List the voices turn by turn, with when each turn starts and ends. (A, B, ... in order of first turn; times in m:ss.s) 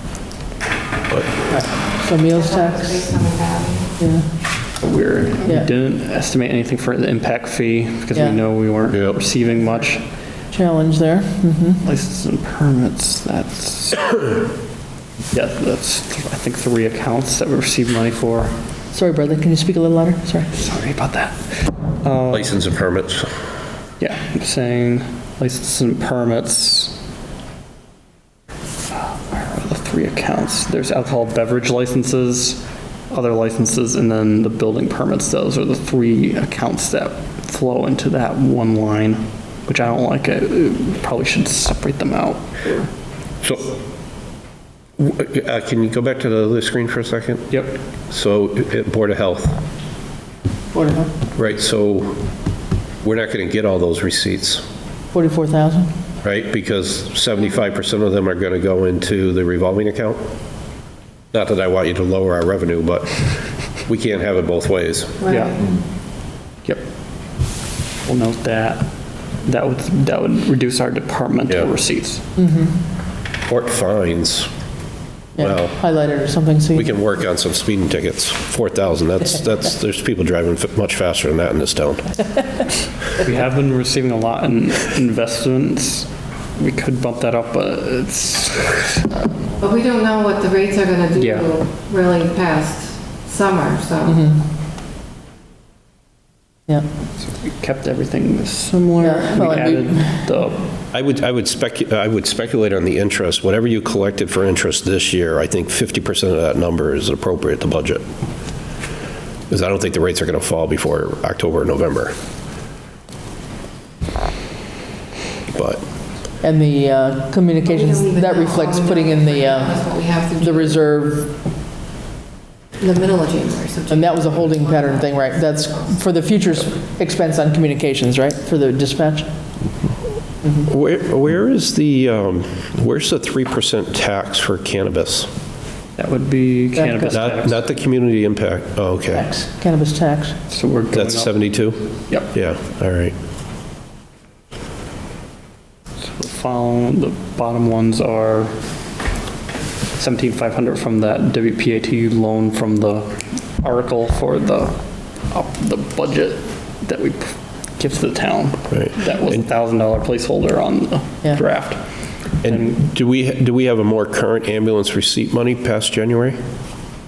0:01.4-0:03.1 A
0:02.3-0:04.0 B
0:04.0-0:04.3 A
0:04.8-0:10.0 C
0:08.9-0:09.2 D
0:10.5-0:11.8 A
0:11.8-0:14.4 C
0:15.3-0:18.5 C
0:18.9-0:20.5 A
0:20.5-0:22.5 C
0:22.3-0:23.3 D
0:24.0-0:27.0 C
0:28.9-0:42.9 C
0:43.4-0:43.8 D
0:45.0-0:49.6 D
0:50.7-0:51.1 A
0:51.4-0:52.2 D
0:53.0-0:54.6 D
0:55.1-0:55.9 A
0:56.2-1:00.2 D
1:01.3-1:03.3 D
1:03.8-1:05.2 D
1:05.2-1:05.6 B
1:05.3-1:05.6 C
1:08.1-1:08.9 C
1:09.4-1:12.2 C
1:12.4-1:12.7 A
1:13.5-1:14.5 D
1:15.4-1:17.0 A
1:15.4-1:15.8 D
1:16.8-1:22.2 D
1:23.2-1:29.5 C
1:29.6-1:34.3 B
1:31.2-1:31.5 C
1:34.1-1:34.4 A
1:37.2-1:40.7 C
1:39.0-1:40.2 A
1:40.9-1:48.0 D
1:49.5-1:52.1 D
1:55.5-1:55.8 D
1:56.4-2:01.3 A
1:57.6-2:00.8 B
2:02.8-2:05.6 B
2:03.9-2:09.3 A
2:10.6-2:15.3 D
2:16.0-2:17.6 C
2:16.7-2:17.1 A
2:17.1-2:19.3 D
2:19.1-2:20.4 A
2:20.5-2:21.4 C
2:20.9-2:23.2 D
2:26.0-2:28.6 C
2:30.0-2:41.8 C
2:38.7-2:39.4 D
2:42.4-2:42.8 C
2:42.4-2:46.4 D